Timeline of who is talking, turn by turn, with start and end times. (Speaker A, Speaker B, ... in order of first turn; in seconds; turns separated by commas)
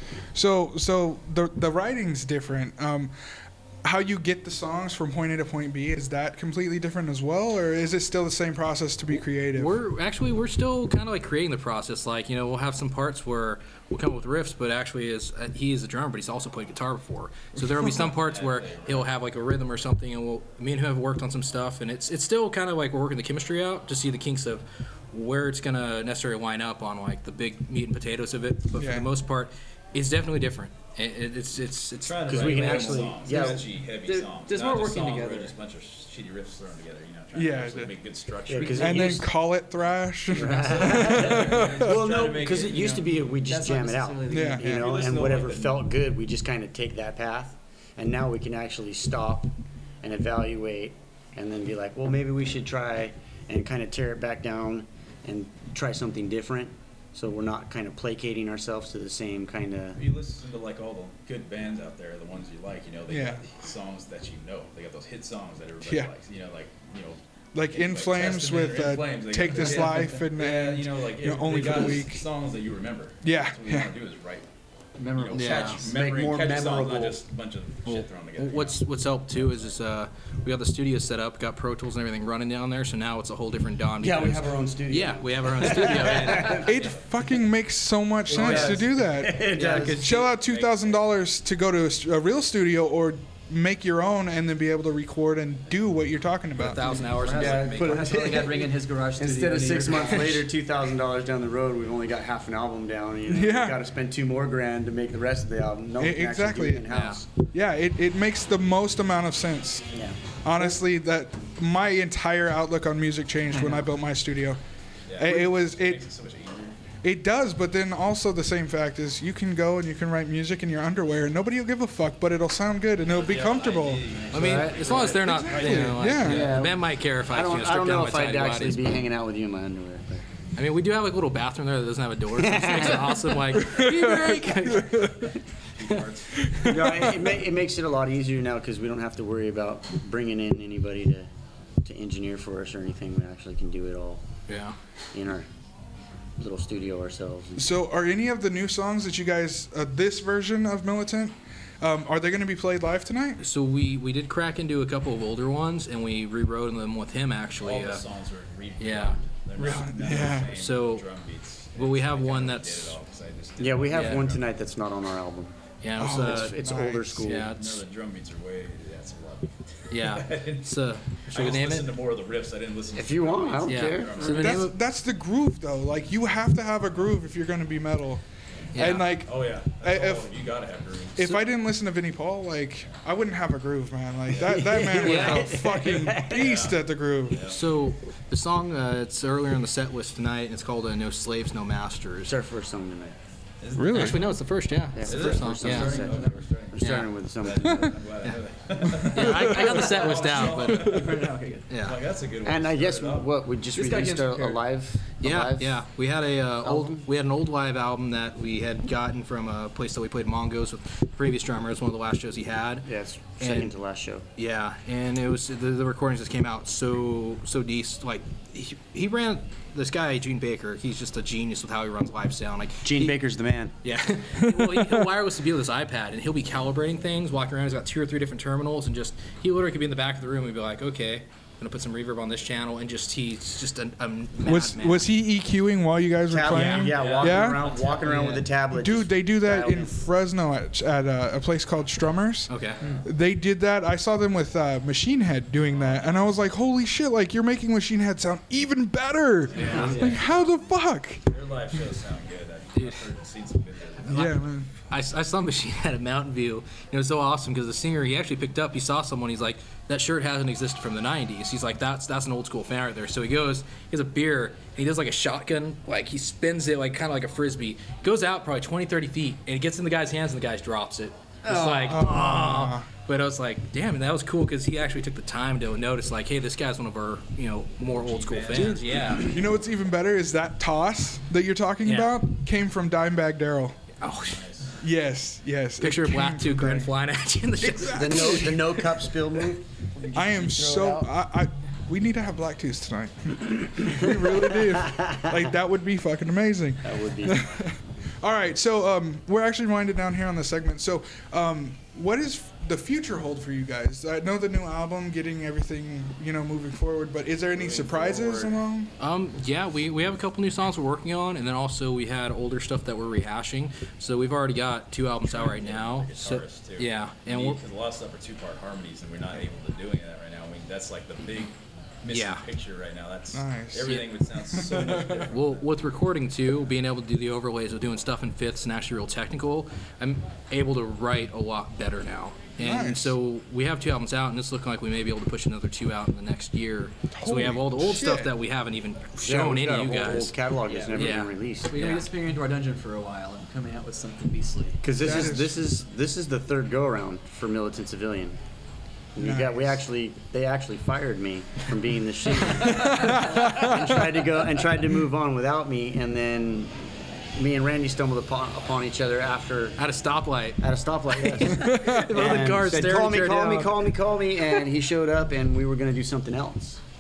Speaker A: 0.3-9.7, Speaker B: 9.2-33.1, Speaker C: 17.9-19.1, Speaker A: 28.8-29.1, Speaker C: 32.0-39.3, Speaker D: 32.3-33.7, Speaker E: 34.0-35.5, Speaker A: 37.3-37.9, Speaker D: 38.5-39.3, Speaker A: 38.7-42.0, Speaker D: 40.3-60.0, Speaker C: 40.4-43.4, Speaker E: 43.4-44.6, Speaker A: 44.3-44.9, Speaker C: 44.6-45.9, Speaker C: 60.0-74.5, Speaker A: 63.1-63.5, Speaker A: 65.8-66.1, Speaker A: 67.5-72.2, Speaker A: 73.2-73.9, Speaker C: 75.0-78.8, Speaker E: 75.3-75.8, Speaker D: 75.3-77.2, Speaker B: 75.3-75.8, Speaker B: 77.8-86.6, Speaker D: 84.0-86.7, Speaker A: 86.6-96.9, Speaker C: 86.7-87.0, Speaker D: 88.3-90.1, Speaker C: 90.3-91.0, Speaker B: 96.6-98.3, Speaker E: 97.0-100.5, Speaker D: 97.4-107.3, Speaker A: 103.3-103.8, Speaker A: 106.0-106.9, Speaker B: 106.9-107.2, Speaker A: 107.5-109.9, Speaker D: 109.9-110.8, Speaker A: 110.4-114.6, Speaker C: 115.1-116.9, Speaker A: 115.2-116.0, Speaker A: 117.0-124.1, Speaker C: 123.1-126.6, Speaker B: 124.3-129.0, Speaker A: 125.2-126.5, Speaker D: 126.2-130.2, Speaker B: 130.6-135.2, Speaker D: 132.3-133.5, Speaker A: 133.6-135.3, Speaker C: 135.9-136.3, Speaker A: 136.4-137.1, Speaker D: 136.6-141.3, Speaker D: 141.8-144.2, Speaker B: 144.5-144.8, Speaker D: 145.1-145.5, Speaker D: 146.4-147.7, Speaker A: 147.6-153.4, Speaker B: 153.4-158.0, Speaker C: 157.6-164.6, Speaker B: 158.8-159.2, Speaker A: 159.6-160.5, Speaker B: 160.5-161.1, Speaker B: 161.8-163.0, Speaker D: 163.6-167.5, Speaker B: 163.9-164.3, Speaker B: 165.8-166.6, Speaker A: 166.0-167.2, Speaker B: 167.2-167.8, Speaker C: 167.3-174.7, Speaker B: 169.9-171.9, Speaker D: 173.0-174.4, Speaker B: 173.7-174.8, Speaker A: 174.3-180.4, Speaker C: 178.7-181.3, Speaker B: 178.7-179.1, Speaker A: 181.2-187.4, Speaker C: 184.3-184.7, Speaker D: 184.4-186.5, Speaker B: 185.0-185.6, Speaker C: 186.2-187.6, Speaker B: 187.5-192.3, Speaker D: 192.3-193.2, Speaker C: 193.6-194.4, Speaker A: 193.8-194.2, Speaker B: 193.9-196.2, Speaker D: 194.9-198.0, Speaker C: 195.0-196.8, Speaker B: 196.8-197.1, Speaker C: 197.4-203.4, Speaker B: 198.2-202.0, Speaker A: 199.1-199.8, Speaker A: 200.9-201.2, Speaker D: 202.4-205.9, Speaker B: 203.8-204.5, Speaker E: 203.8-204.5, Speaker B: 205.2-212.9, Speaker D: 206.6-207.0, Speaker D: 212.9-214.2, Speaker B: 213.4-213.7, Speaker B: 214.4-223.2, Speaker D: 222.8-223.7, Speaker B: 223.8-235.1, Speaker A: 224.5-224.9, Speaker A: 234.4-237.7, Speaker D: 236.3-239.9, Speaker B: 236.5-236.9, Speaker C: 236.9-238.2, Speaker B: 238.1-238.4, Speaker A: 238.7-251.2, Speaker B: 242.5-242.8, Speaker C: 245.7-246.2, Speaker C: 249.5-250.2, Speaker B: 249.6-250.1, Speaker C: 251.3-254.3, Speaker B: 252.7-253.1, Speaker B: 254.1-254.4, Speaker A: 254.1-254.7, Speaker B: 254.9-279.3, Speaker A: 271.5-272.9, Speaker C: 278.0-279.4, Speaker A: 278.5-283.8, Speaker B: 281.9-282.2, Speaker B: 284.0-284.4, Speaker C: 284.1-284.8, Speaker A: 284.8-286.9, Speaker B: 285.8-288.8, Speaker A: 287.6-288.7, Speaker D: 287.9-291.1, Speaker A: 290.1-308.9, Speaker D: 296.8-297.5, Speaker B: 309.0-317.6, Speaker C: 315.2-325.7, Speaker B: 322.1-322.4, Speaker A: 323.3-324.0, Speaker A: 324.5-325.2, Speaker B: 325.3-342.1, Speaker A: 332.6-333.1, Speaker A: 337.1-338.3, Speaker D: 339.2-341.9, Speaker E: 341.8-344.9, Speaker D: 344.8-348.4, Speaker A: 345.0-345.6, Speaker D: 349.1-356.8, Speaker A: 349.2-349.8, Speaker A: 352.7-353.7, Speaker D: 357.4-359.8, Speaker B: 359.8-363.7, Speaker D: 360.6-366.8